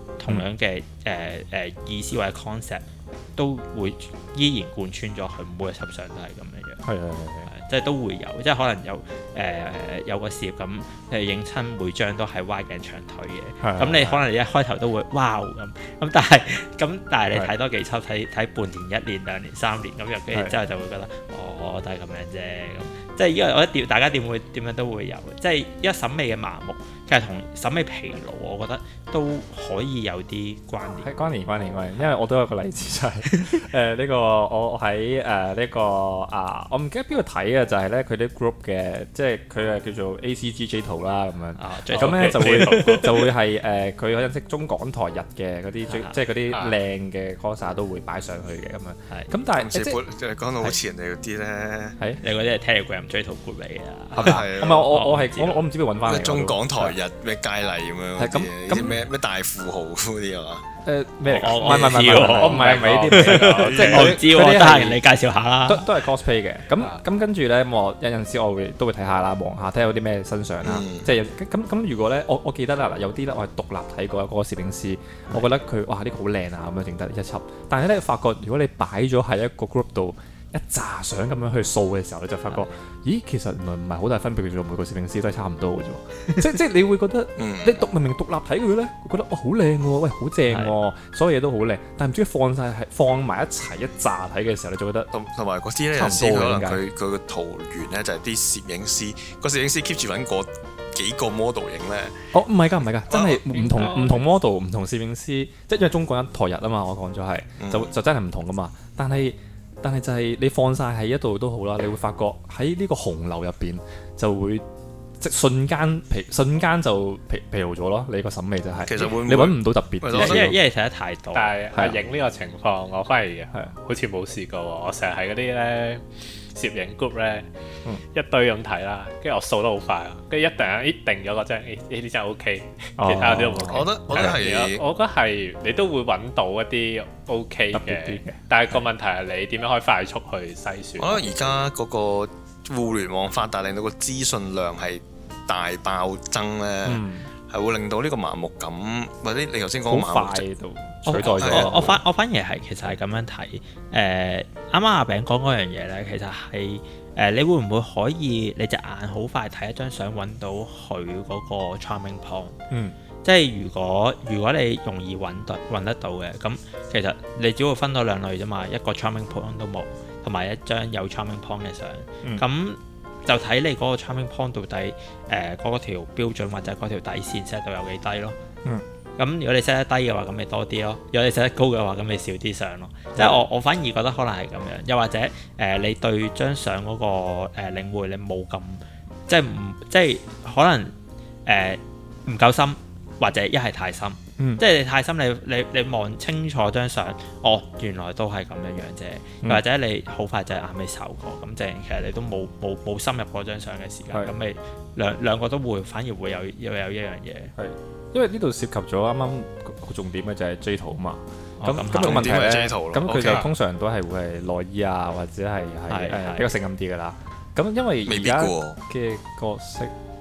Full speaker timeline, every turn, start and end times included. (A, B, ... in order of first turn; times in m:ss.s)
0:00.2-0:02.8 A
0:03.3-0:06.8 A
0:06.8-0:07.5 B
0:07.4-0:31.1 A
0:13.6-0:14.2 B
0:30.8-0:50.0 B
0:41.6-0:43.3 A
0:41.9-0:43.3 C
0:45.9-0:46.2 A
0:46.5-0:46.8 C
0:49.5-0:52.0 D
0:52.2-0:55.6 A
0:54.1-0:57.0 B
0:54.2-0:55.0 D
0:56.0-1:00.6 D
0:58.2-0:59.0 B
1:00.8-1:05.0 B
1:01.3-1:05.8 A
1:01.4-1:04.1 C
1:03.7-1:04.1 D
1:05.6-1:35.1 B
1:10.6-1:11.1 D
1:27.4-1:27.9 D
1:30.5-1:30.7 A
1:35.1-1:42.2 D
1:35.9-1:36.8 B
1:42.3-1:54.6 B
1:43.1-1:44.0 D
1:43.6-1:44.2 C
1:47.6-1:47.9 D
1:55.2-2:00.6 B
1:58.8-2:00.6 D
2:00.2-2:01.5 A
2:01.3-2:06.0 C
2:01.7-2:02.0 B
2:06.5-2:07.4 C
2:08.1-2:21.6 C
2:13.0-2:14.4 B
2:13.6-2:14.8 D
2:17.7-2:18.8 B
2:21.0-2:30.4 D
2:26.8-2:27.3 B
2:29.8-2:32.0 B
2:31.0-2:42.6 A
2:31.2-2:31.8 D
2:43.2-2:58.4 A
2:59.2-3:10.9 A
3:11.4-3:27.5 A
3:27.6-3:39.9 B
3:31.6-3:32.4 A
3:31.9-3:33.5 D
3:35.9-3:36.4 A
3:38.0-3:38.8 D